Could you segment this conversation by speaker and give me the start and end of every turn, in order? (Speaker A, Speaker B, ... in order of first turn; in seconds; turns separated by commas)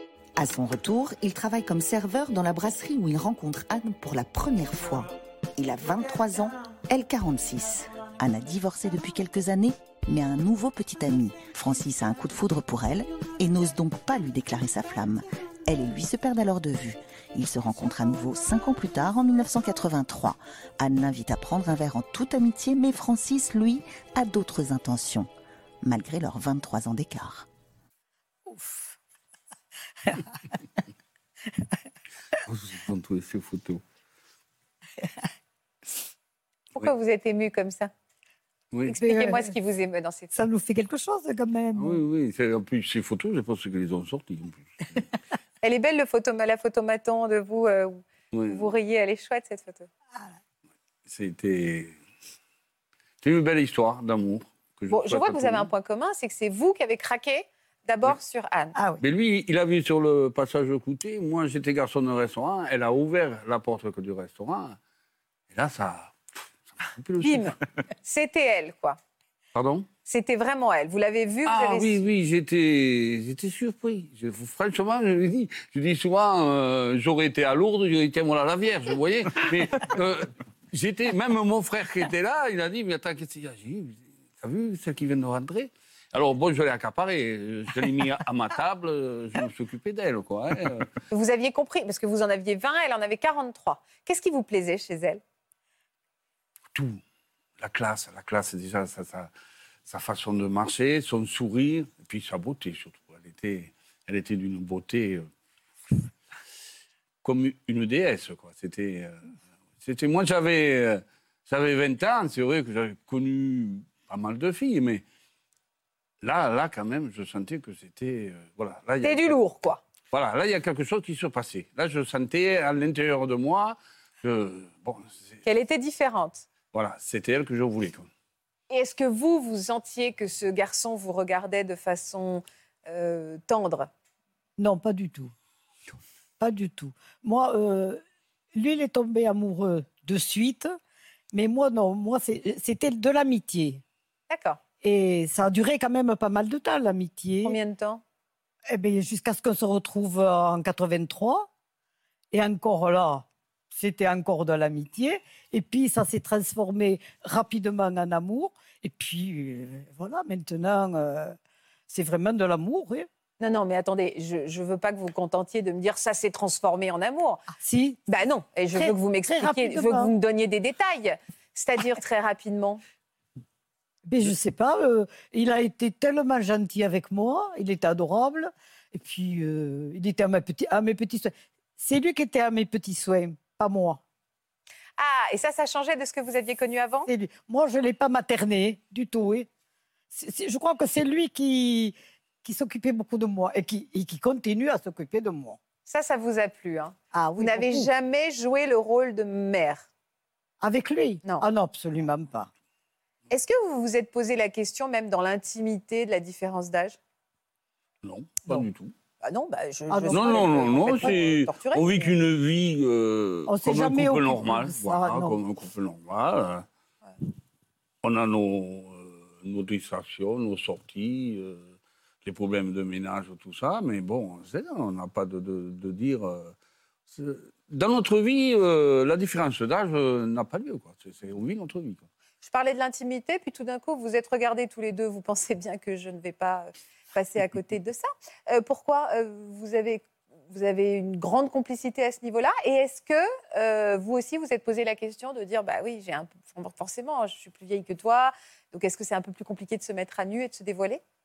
Speaker A: 0.4-25.3, Speaker A: 25.8-27.5, Speaker B: 28.5-28.9, Speaker C: 32.5-33.8, Speaker D: 36.7-37.9, Speaker C: 38.7-39.0, Speaker D: 38.9-40.3, Speaker B: 39.0-39.4, Speaker B: 40.3-42.0, Speaker C: 41.7-45.0, Speaker D: 45.6-49.9, Speaker C: 48.3-48.7, Speaker C: 51.0-51.9, Speaker C: 53.2-55.7, Speaker D: 54.9-58.7, Speaker B: 58.7-59.0, Speaker C: 59.0-64.8, Speaker C: 65.5-66.2, Speaker C: 66.8-67.5, Speaker D: 67.2-69.0, Speaker C: 69.5-69.9, Speaker D: 70.0-72.1, Speaker C: 71.5-90.9, Speaker D: 91.1-95.2, Speaker C: 96.7-97.0, Speaker C: 97.6-99.3, Speaker C: 99.9-105.3, Speaker C: 107.2-115.0, Speaker C: 116.2-119.3, Speaker D: 119.0-119.8, Speaker C: 120.1-125.2, Speaker D: 125.4-126.5, Speaker C: 126.7-128.1, Speaker D: 128.7-133.9, Speaker B: 134.6-135.3, Speaker B: 136.4-138.0, Speaker B: 138.5-140.7, Speaker B: 141.3-143.8, Speaker D: 144.3-144.6, Speaker B: 144.8-147.6, Speaker D: 147.4-148.0, Speaker B: 148.7-151.5, Speaker B: 152.3-161.3, Speaker B: 161.9-163.1, Speaker D: 163.4-167.4, Speaker B: 167.5-168.0, Speaker D: 168.1-172.8, Speaker B: 168.7-170.1, Speaker B: 174.1-184.0, Speaker D: 185.0-187.1, Speaker B: 187.1-189.5, Speaker B: 190.1-195.6, Speaker D: 195.8-199.9, Speaker B: 197.1-197.9, Speaker B: 200.6-202.5, Speaker D: 203.3-207.0, Speaker C: 208.0-208.9, Speaker D: 209.2-212.1, Speaker B: 209.9-211.1, Speaker C: 210.1-216.6, Speaker B: 213.5-215.4, Speaker C: 218.0-226.5, Speaker C: 227.1-232.1, Speaker D: 232.4-251.0